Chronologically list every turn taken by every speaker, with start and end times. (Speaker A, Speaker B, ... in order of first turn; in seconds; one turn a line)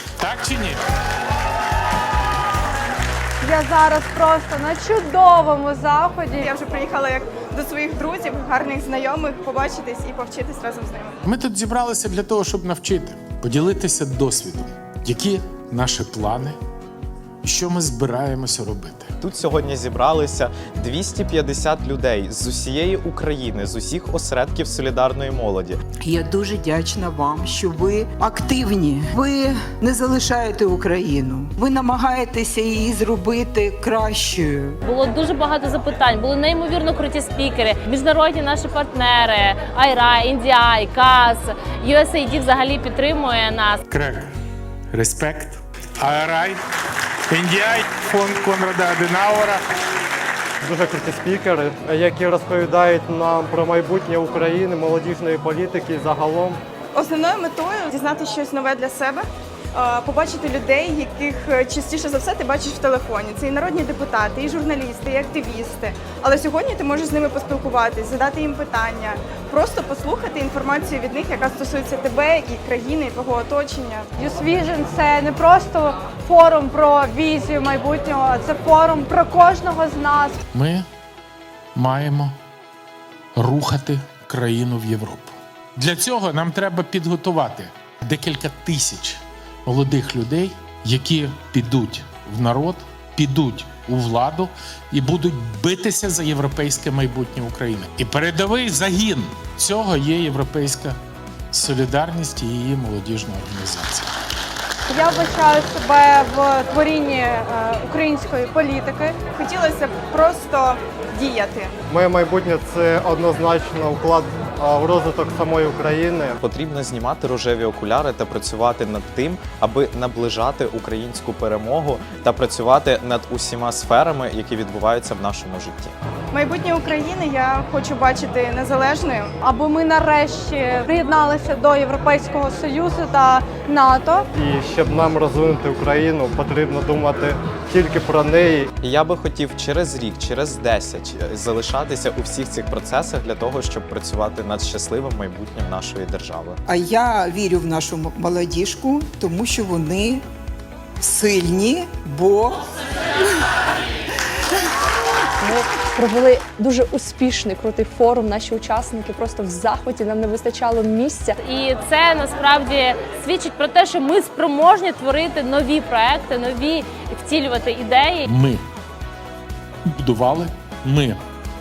Speaker A: 0.2-0.8
Speaker B: 3.4-6.5
Speaker C: 6.4-11.2
Speaker A: 11.2-16.6
Speaker A: 17.4-19.1
Speaker D: 19.2-25.8
Speaker E: 26.0-34.8
Speaker F: 34.8-43.8
Speaker A: 43.9-44.3
Speaker A: 44.9-46.6
Speaker A: 47.3-49.6
Speaker G: 50.6-56.6
Speaker C: 56.9-74.1
Speaker B: 74.2-80.4
Speaker A: 80.5-80.9
Speaker A: 81.8-82.3
Speaker A: 83.4-101.0
Speaker A: 101.5-104.1
Speaker B: 104.9-109.2
Speaker C: 109.3-111.7
Speaker G: 111.9-116.4
Speaker D: 116.4-125.9
Speaker C: 126.3-129.3
Speaker B: 129.4-134.3
Speaker G: 134.4-138.7
Speaker D: 138.8-146.6
Speaker E: 146.7-150.2
Speaker E: 151.0-152.6
Speaker H: 155.4-161.4
Speaker F: 161.4-168.3
Speaker A: 168.3-168.6
Speaker A: 169.9-171.2